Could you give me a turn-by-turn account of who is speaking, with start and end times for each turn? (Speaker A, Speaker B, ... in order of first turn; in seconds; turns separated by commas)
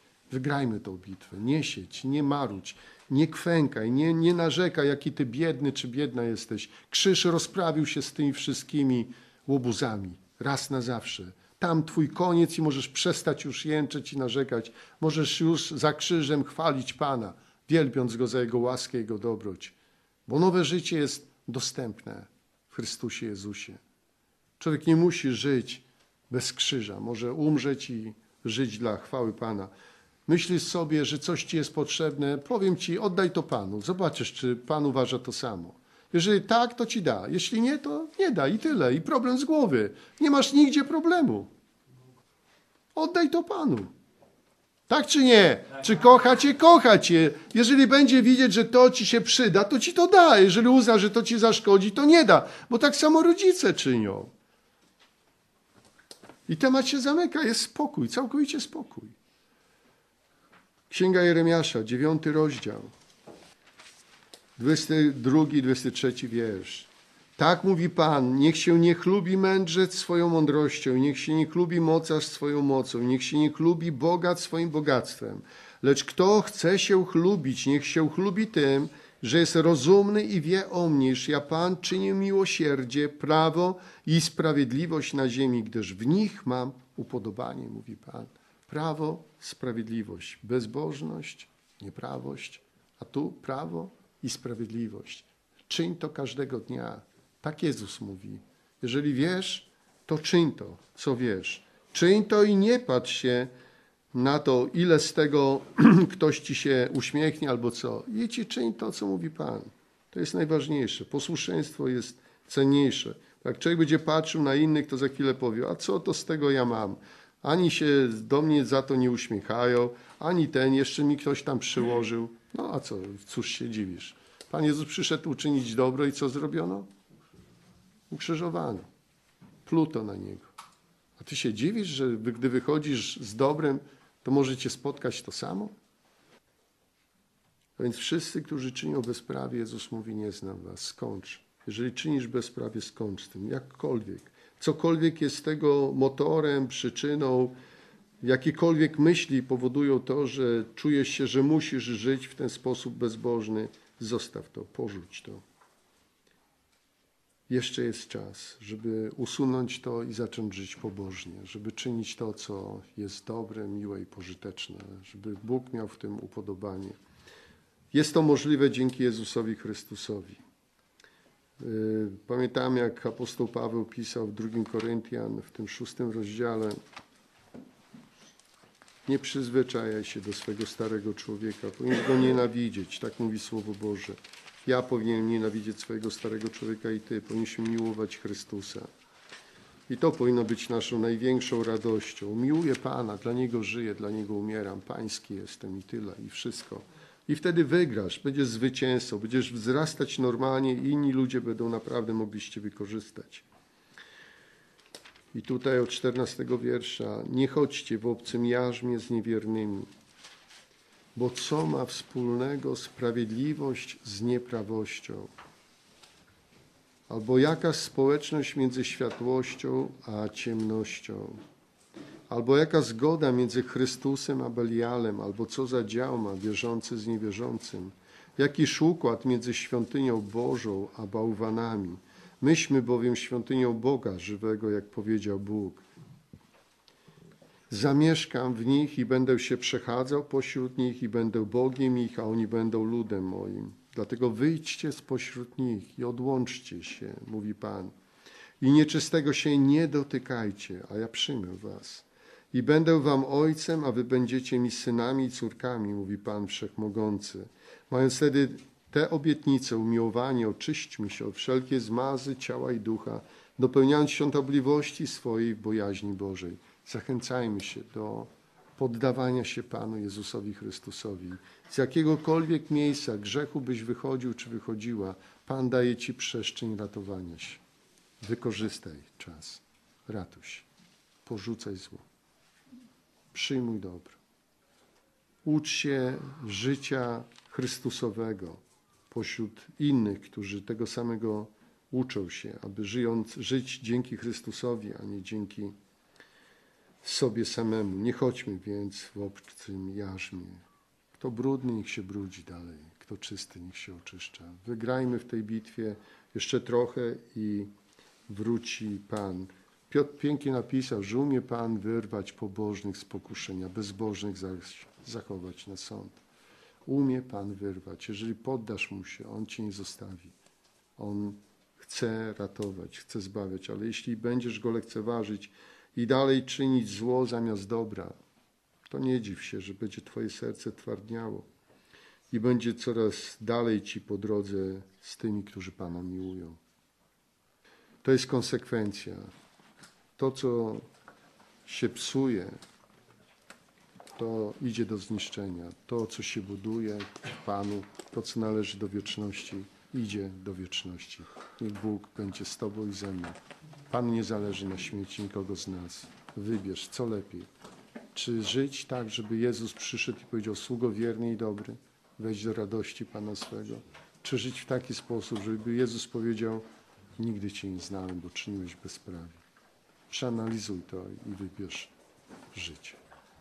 Speaker A: 0.3-19.8, Speaker A: 20.3-23.8, Speaker A: 24.6-29.7, Speaker A: 30.3-41.5, Speaker A: 43.0-43.9, Speaker A: 44.9-54.3, Speaker A: 56.5-59.2, Speaker A: 60.9-62.9, Speaker A: 64.6-103.5, Speaker A: 104.1-126.9, Speaker A: 128.1-128.9, Speaker A: 129.7-130.5, Speaker A: 131.2-135.7, Speaker A: 137.8-147.6, Speaker A: 148.2-155.4, Speaker A: 157.5-167.0, Speaker A: 167.9-170.4, Speaker A: 171.6-176.8, Speaker A: 179.1-188.9, Speaker A: 189.9-203.4, Speaker A: 205.3-209.9, Speaker A: 211.2-215.3, Speaker A: 217.1-221.4, Speaker A: 222.3-235.9, Speaker A: 237.7-247.9, Speaker A: 248.6-277.6, Speaker A: 278.2-280.7, Speaker A: 281.2-282.1, Speaker A: 283.3-284.2, Speaker A: 285.4-295.8, Speaker A: 297.0-300.6, Speaker A: 301.1-307.7, Speaker A: 308.3-316.2, Speaker A: 316.9-320.3, Speaker A: 321.0-328.1, Speaker A: 328.9-331.5, Speaker A: 332.3-336.6, Speaker A: 338.0-339.3, Speaker A: 340.2-340.9, Speaker A: 341.7-342.6, Speaker A: 344.2-353.4, Speaker A: 353.9-357.5, Speaker A: 358.1-366.6, Speaker A: 367.2-369.4, Speaker A: 370.1-371.9, Speaker A: 372.5-373.0